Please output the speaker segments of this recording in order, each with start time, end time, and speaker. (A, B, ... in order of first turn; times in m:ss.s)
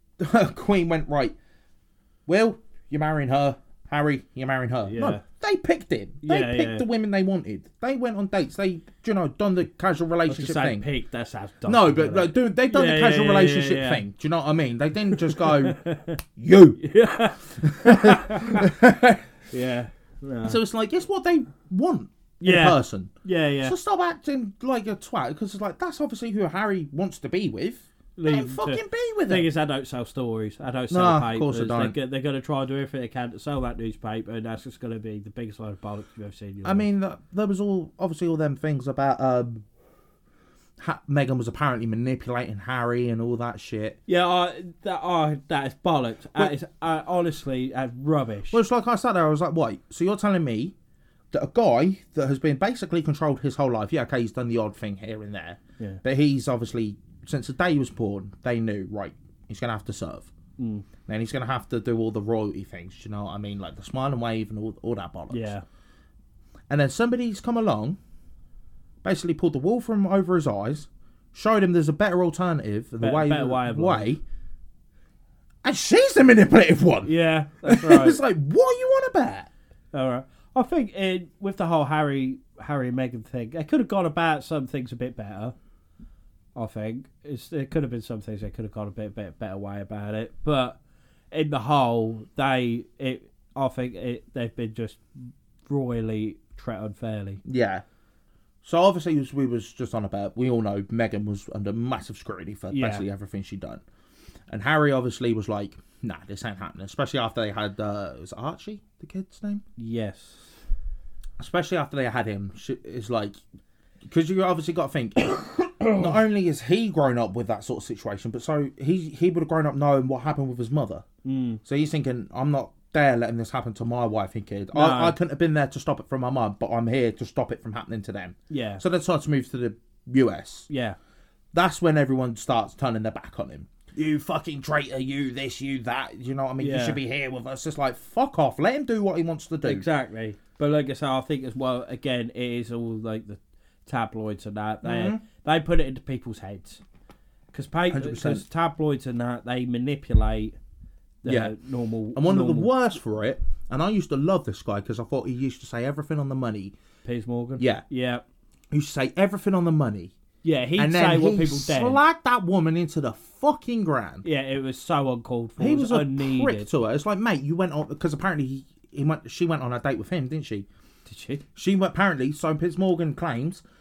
0:00.2-0:01.3 A
0:02.3-0:10.8 A
0:04.8-0:05.2 B
0:06.2-0:06.8 B
0:10.3-0:14.0 B
0:11.6-0:15.8 A
0:15.1-0:16.2 B
0:16.4-0:16.8 A
0:16.8-0:18.7 B
0:17.5-0:19.3 A
0:19.5-0:20.6 B
0:20.4-0:23.1 A
0:22.4-0:23.7 B
0:23.6-0:29.5 A
0:28.2-0:36.9 B
0:30.9-0:31.9 A
0:36.6-0:39.6 A
0:40.8-0:44.0 A
0:44.1-0:48.6 B
0:48.5-0:50.7 A
0:51.3-1:00.3 A
1:00.6-1:00.8 B
1:01.1-1:05.5 A
1:05.3-1:05.6 B
1:06.7-1:08.0 A
1:09.0-1:14.2 A
1:13.0-1:14.1 B
1:15.6-1:17.1 A
1:17.0-1:18.2 B
1:17.6-1:19.5 A
1:19.9-1:25.5 B
1:26.5-1:30.8 B
1:31.3-1:37.4 B
1:37.4-1:37.8 A
1:38.6-1:43.8 A
1:42.7-1:43.0 B
1:44.5-1:49.6 A
1:49.8-1:50.6 B
1:51.4-1:53.4 A
1:54.0-2:01.0 A
2:01.2-2:01.6 B
2:01.6-2:10.7 A
2:04.7-2:05.2 B
2:08.5-2:08.8 B
2:10.7-2:11.0 B
2:11.5-2:19.8 A
2:16.6-2:17.0 B
2:19.6-2:26.8 B
2:24.8-2:25.2 A
2:27.5-2:30.6 B
2:27.9-2:28.4 A
2:31.2-2:32.7 B
2:31.2-2:31.5 A
2:32.1-2:36.7 A
2:37.0-2:38.2 B
2:37.6-2:37.8 A
2:38.7-2:40.1 A
2:40.4-2:42.0 B
2:40.8-2:44.2 A
2:44.2-2:46.7 B
2:45.6-2:50.7 A
2:51.0-2:51.4 B
2:51.5-2:53.6 A